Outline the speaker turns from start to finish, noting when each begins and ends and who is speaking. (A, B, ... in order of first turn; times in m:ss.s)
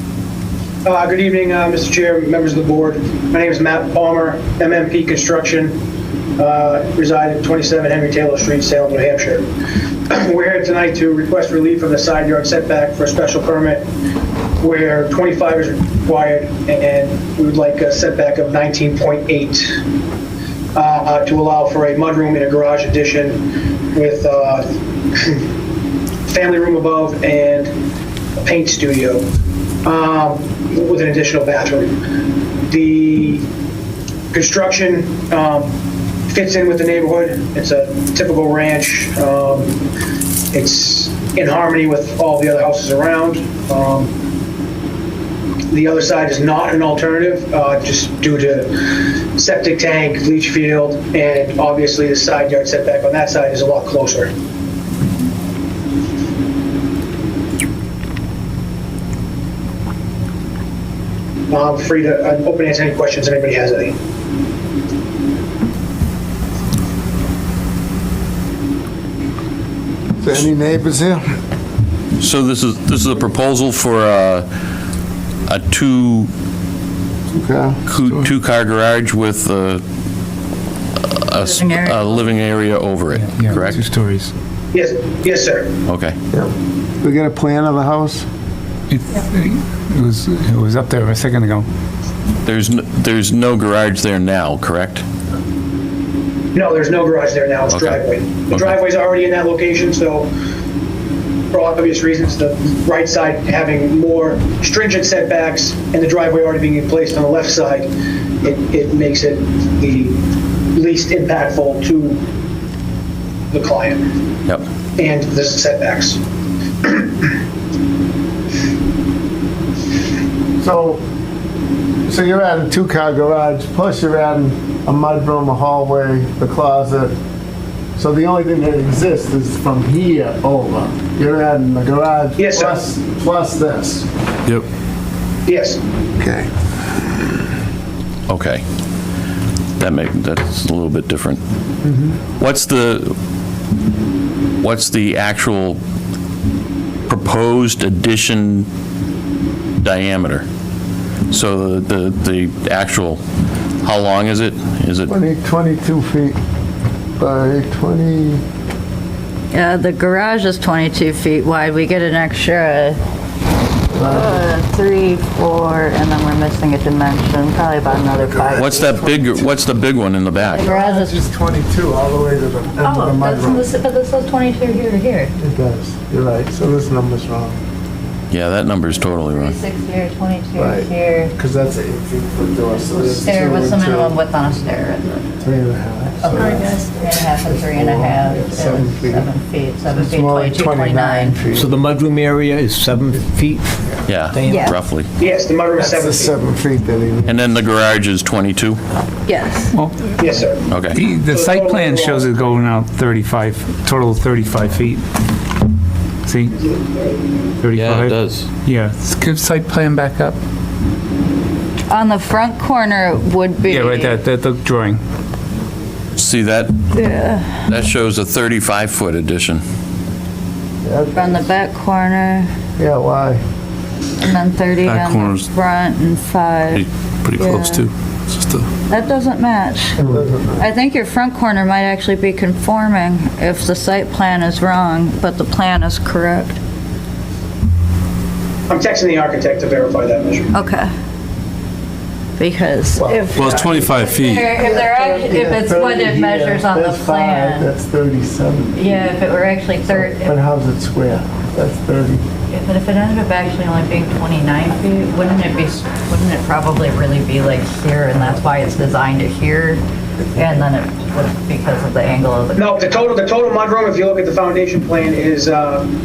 0:00.8-0:05.8 A
0:06.4-0:09.4 A
0:10.1-0:13.9 A
0:14.6-0:19.8 A
0:20.8-0:23.4 A
0:23.9-0:25.4 A
0:26.3-0:27.7 A
0:28.4-0:29.2 A
0:29.8-0:31.9 A
0:32.7-0:33.4 A
0:34.3-0:35.7 A
0:36.3-0:39.8 A
0:40.5-0:44.1 A
0:45.7-0:48.7 A
0:49.4-0:54.3 A
1:01.5-1:03.9 A
1:10.2-1:11.2 B
1:12.2-1:14.5 C
1:15.5-1:16.3 C
1:17.3-1:17.8 B
1:17.9-1:19.8 C
1:21.1-1:23.8 C
1:21.4-1:22.2 D
1:23.1-1:24.3 E
1:24.7-1:25.7 A
1:25.9-1:26.2 C
1:26.3-1:28.3 B
1:28.9-1:31.7 E
1:32.4-1:35.0 C
1:36.6-1:40.3 A
1:37.7-1:38.8 C
1:41.5-1:47.9 A
1:48.4-1:50.2 A
1:50.7-1:52.2 A
1:53.5-1:54.0 A
1:55.0-1:56.2 A
2:00.6-2:01.0 B
2:02.1-2:07.1 B
2:08.0-2:14.1 B
2:12.4-2:12.8 A
2:15.5-2:15.8 A
2:16.2-2:16.5 B
2:18.3-2:18.6 C
2:19.8-2:21.4 C
2:22.4-2:23.2 C
2:24.6-2:25.8 C
2:27.1-2:28.7 C
2:29.8-2:30.4 C
2:31.3-2:33.2 C
2:33.8-2:35.1 C
2:35.1-2:36.4 B
2:37.2-2:38.4 B
2:39.5-2:43.0 D
2:43.9-2:44.5 B
2:43.9-2:49.1 D
2:48.0-2:49.5 B
2:48.5-2:50.6 C
2:50.5-2:51.2 D
2:50.5-2:53.7 B
2:52.8-2:55.3 D
2:55.4-2:57.6 B
2:58.3-2:59.6 C
2:59.2-3:01.4 D
3:00.6-3:04.2 B
3:02.9-3:05.4 D
3:05.4-3:09.3 B
3:06.2-3:11.5 D
3:09.9-3:11.7 B
3:11.6-3:13.7 F
3:14.1-3:15.1 C
3:14.3-3:14.6 F
3:14.4-3:14.8 D
3:15.2-3:16.4 A
3:15.8-3:17.5 B
3:17.3-3:18.8 C
3:19.3-3:19.7 D
3:19.7-3:20.3 E
3:20.2-3:22.4 A
3:20.7-3:21.0 C
3:20.9-3:25.0 E
3:26.2-3:26.6 E
3:27.6-3:30.4 E
3:27.7-3:28.5 C
3:31.9-3:34.2 D
3:33.7-3:35.0 E
3:36.2-3:36.8 C
3:36.9-3:37.6 D
3:37.7-3:39.6 C
3:40.8-3:41.6 B
3:41.2-3:42.5 D
3:42.8-3:43.4 B
3:44.2-3:47.9 D
3:44.8-3:45.5 G
3:46.8-3:48.7 G
3:48.9-3:50.0 D
3:50.0-3:50.7 B
3:50.6-3:56.6 D
3:58.7-4:00.5 A
4:00.5-4:00.9 D
4:02.4-4:07.7 D
4:03.0-4:03.4 B
4:03.3-4:04.5 G
4:04.6-4:09.2 B
4:08.8-4:10.4 D
4:09.9-4:12.2 B
4:12.5-4:19.8 D
4:20.4-4:23.2 D
4:22.6-4:25.9 A